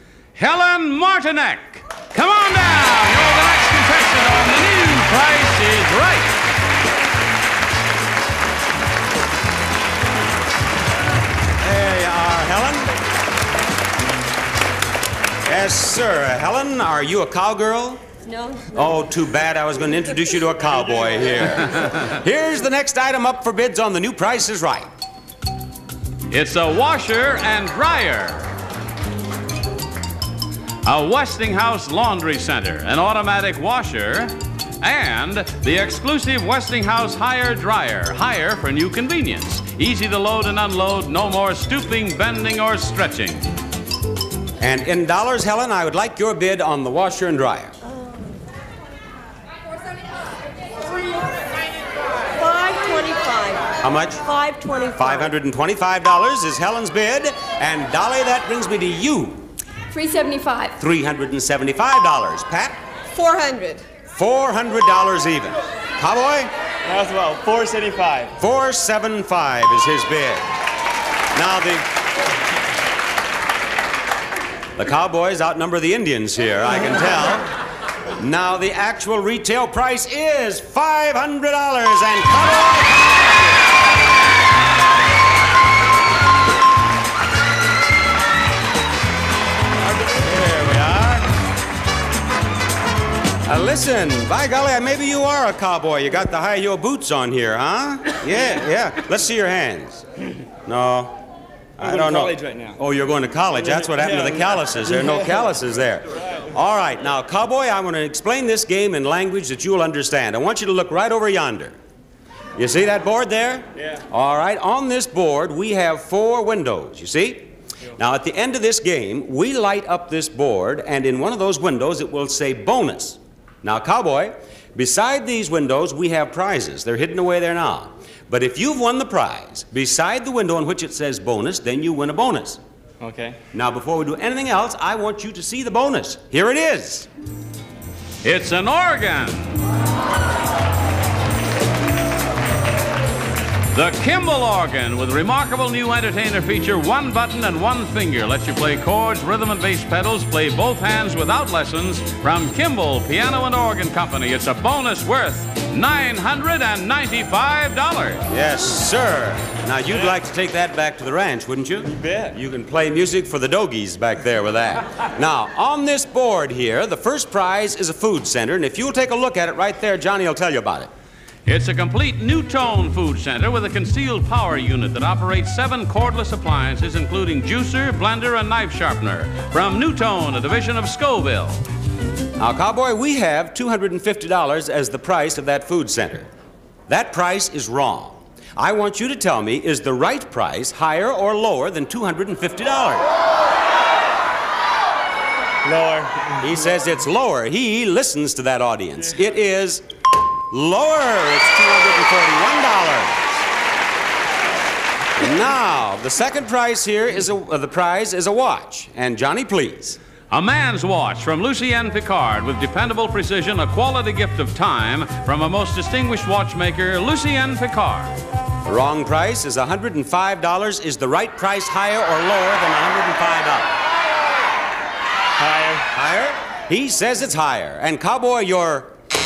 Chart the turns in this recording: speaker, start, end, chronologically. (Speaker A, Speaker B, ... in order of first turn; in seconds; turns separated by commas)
Speaker A: 0.3-6.4, Speaker B: 11.6-12.9, Speaker B: 15.5-18.0, Speaker C: 18.3-18.7, Speaker B: 18.7-24.9, Speaker A: 26.3-28.5, Speaker A: 30.8-43.5, Speaker B: 44.6-47.7, Speaker C: 52.3-55.3, Speaker B: 53.8-54.3, Speaker B: 54.9-59.4, Speaker C: 59.9-60.7, Speaker B: 60.7-62.8, Speaker C: 63.1-63.8, Speaker B: 64.1-66.5, Speaker D: 66.8-68.4, Speaker B: 68.4-70.5, Speaker B: 71.3-71.8, Speaker B: 74.8-77.5, Speaker B: 78.2-83.0, Speaker B: 90.0-91.3, Speaker B: 93.5-100.0, Speaker B: 100.7-101.2, Speaker B: 101.8-111.8, Speaker D: 101.8-102.8, Speaker D: 103.8-105.2, Speaker B: 112.6-132.6, Speaker D: 133.0-133.4, Speaker B: 133.5-137.1, Speaker A: 138.2-139.7, Speaker A: 143.7-158.2, Speaker B: 158.3-170.9, Speaker D: 161.8-162.4, Speaker A: 171.5-181.7, Speaker B: 182.4-186.3, Speaker B: 186.9-193.1, Speaker D: 195.6-196.4, Speaker B: 196.4-199.8, Speaker B: 200.5-203.3, Speaker B: 205.2-210.0, Speaker A: 210.3-218.2, Speaker B: 218.6-223.8, Speaker D: 225.4-225.9, Speaker B: 225.9-228.9